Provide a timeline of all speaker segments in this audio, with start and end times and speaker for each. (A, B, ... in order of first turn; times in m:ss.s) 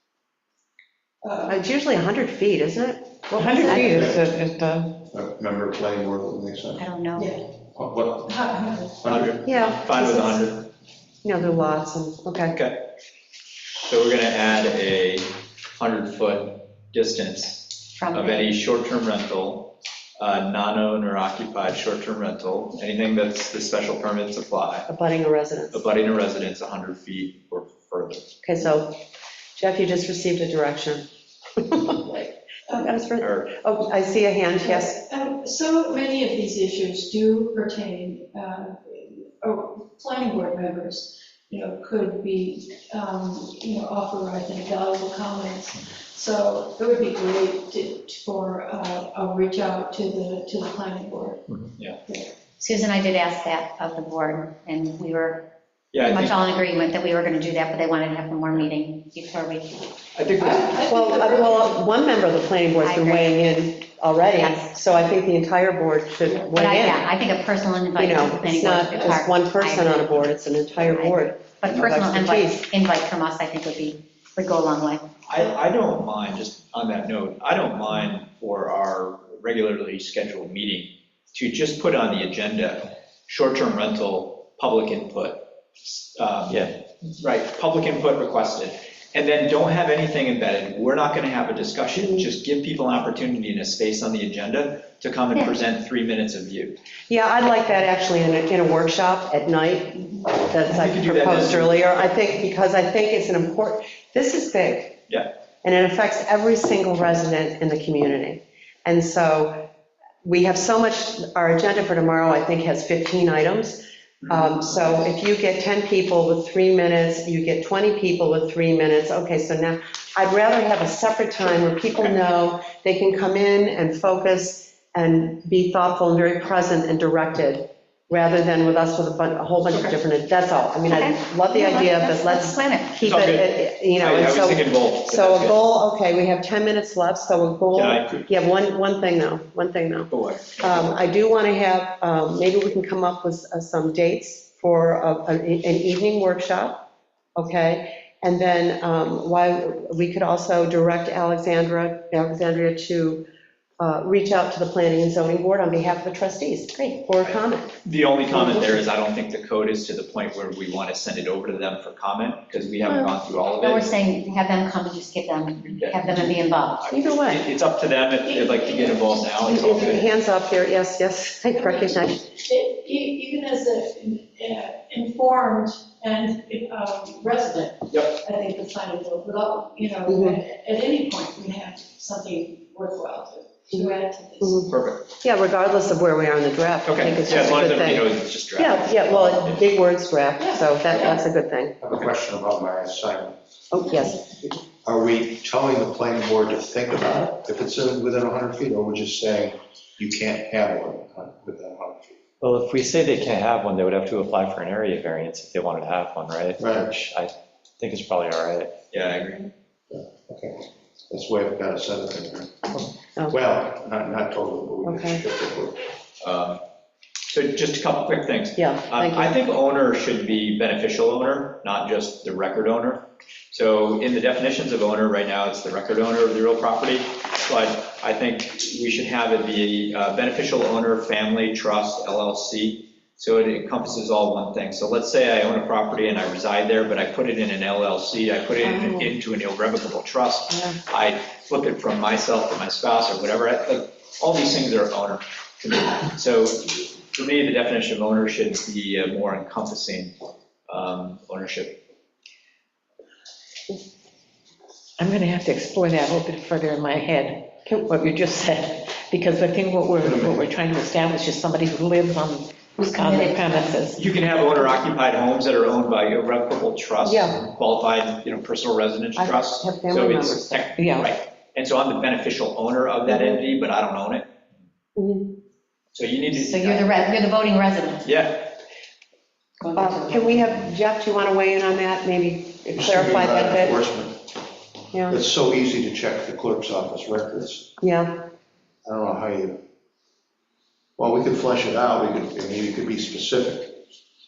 0:01.2-0:01.6 A
0:01.5-0:04.1 B
0:03.3-0:05.0 C
0:03.8-0:04.2 D
0:05.1-0:06.8 D
0:06.8-0:07.3 E
0:07.2-0:07.5 A
0:07.7-0:09.5 D
0:08.2-0:09.0 A
0:09.1-0:10.7 F
0:09.4-0:10.5 B
0:11.2-0:12.6 B
0:12.5-0:12.8 F
0:13.9-0:24.9 F
0:18.0-0:18.5 E
0:24.9-0:25.8 B
0:25.7-0:28.3 F
0:28.4-0:29.0 B
0:29.6-0:32.1 B
0:32.0-0:33.0 A
0:32.7-0:35.0 B
0:33.2-0:33.6 F
0:34.6-0:51.6 A
0:52.6-0:55.5 E
0:55.9-0:56.4 F
0:56.0-0:59.8 E
1:00.1-1:00.8 F
1:00.4-1:01.8 A
1:00.9-1:07.1 B
1:02.8-1:03.3 E
1:04.3-1:04.8 E
1:06.5-1:15.1 E
1:08.0-1:12.6 B
1:15.3-1:36.8 F
1:26.5-1:26.7 G
1:31.9-1:32.3 B
1:37.1-1:45.0 B
1:40.7-1:41.8 F
1:45.6-1:49.7 B
1:50.2-2:33.2 B
1:54.2-1:54.9 F
2:09.7-2:10.0 F
2:10.9-2:13.0 E
2:13.0-2:15.6 F
2:17.7-2:18.3 F
2:20.1-2:21.0 F
2:33.8-2:37.8 B
2:37.2-2:44.0 F
2:38.3-2:38.8 B
2:42.8-2:43.1 B
2:43.6-2:46.9 E
2:45.6-2:50.1 F
2:46.9-2:47.5 B
2:48.2-2:49.9 A
2:49.4-2:52.3 B
2:51.5-3:04.7 A
2:57.9-2:58.2 F
3:00.0-3:00.4 B
3:03.7-3:11.8 B
3:04.7-3:05.0 F
3:06.8-3:09.6 F
3:10.4-3:11.2 A
3:11.8-3:13.4 D
3:13.7-3:14.2 B
3:13.8-3:14.2 A
3:14.8-3:22.2 D
3:22.4-3:28.7 G
3:26.6-3:26.9 D
3:28.9-3:29.5 F
3:29.9-3:32.7 D
3:33.3-3:35.8 D
3:34.8-3:35.2 B
3:36.2-3:36.6 F
3:37.3-4:10.1 F
3:38.6-3:39.4 B
3:58.6-3:59.1 B
4:00.5-4:00.8 B
4:10.7-4:11.8 F
4:15.0-4:24.0 C
4:17.6-4:17.9 B
4:20.0-4:20.5 D
4:23.0-4:23.7 E
4:23.9-4:34.3 F
4:27.0-4:27.4 B
4:29.2-4:30.7 B
4:30.8-4:31.1 C
4:33.0-4:33.4 B
4:35.0-4:35.4 B
4:35.9-4:37.0 F
4:36.3-4:38.0 E
4:38.0-4:38.5 F
4:39.6-4:40.5 C
4:39.7-4:43.8 B
4:42.7-4:44.2 D
4:44.9-4:45.2 B
4:45.1-4:47.7 D
4:47.8-4:48.3 B
4:48.8-4:49.6 D
4:51.0-4:53.8 D